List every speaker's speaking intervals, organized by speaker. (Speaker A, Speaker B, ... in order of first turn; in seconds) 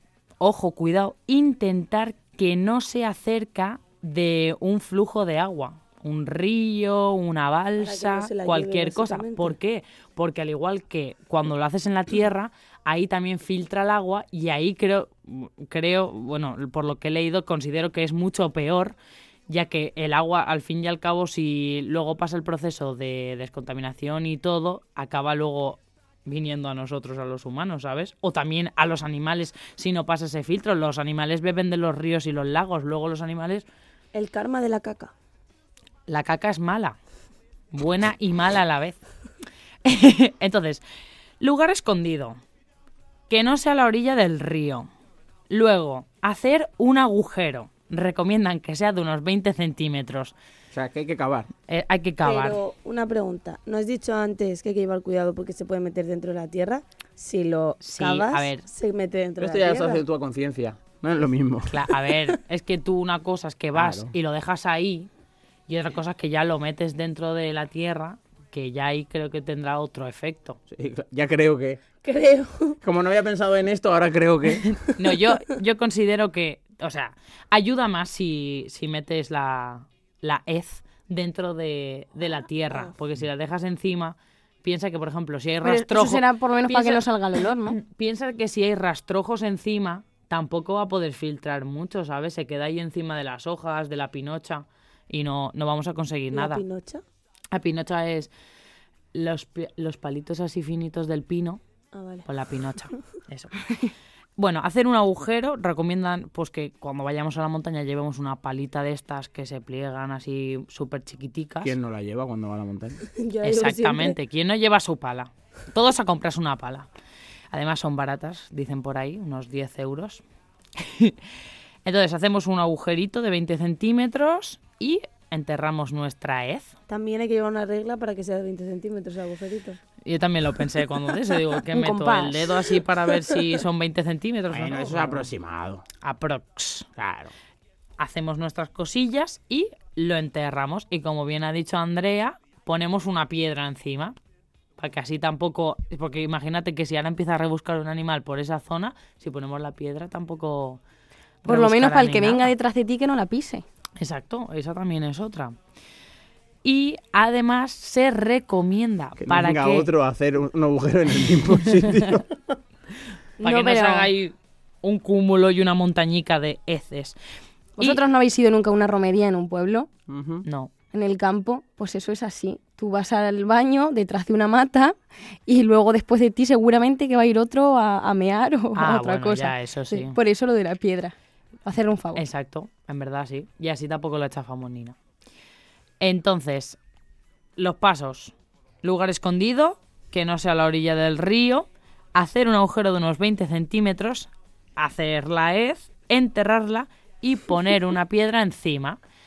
Speaker A: 0.4-18.9, 19.5-33.6, 36.1-37.0, 37.7-39.0, 39.8-40.8, 41.4-42.4, 43.3-44.9, 45.5-50.3, 51.7-52.6, 57.8-58.7, 61.7-65.1, 65.7-70.6, 74.9-87.0, 87.7-96.6, 97.5-98.3, 99.1-101.6, 102.2-103.7, 104.4-111.7, 113.4-116.9, 117.5-120.2, 120.8-121.2, 121.8-126.7, 130.1-135.3, 136.0-136.9, 138.0-144.2, 144.8-150.8, 151.4-152.5, 154.0-155.6, 156.6-159.9, 163.4-167.2, 170.4-170.7, 178.7-180.2, 182.1-184.9, 186.0-186.8, 187.6-199.0
Speaker B: 7.8-9.6, 34.1-35.1, 52.2-60.0, 72.0-72.8, 96.3-97.0, 101.9-102.2, 113.1-114.2, 126.9-129.8
Speaker C: 50.7-51.5, 59.4-61.9, 63.7-64.1, 70.7-71.8, 72.8-74.8, 111.6-113.0, 134.5-135.8, 136.9-137.3, 159.2-162.5, 170.1-170.4
Speaker D: 85.6-87.8, 131.7-132.5, 151.4-153.6, 163.4-164.1, 167.8-169.9, 170.9-181.1, 181.7-182.2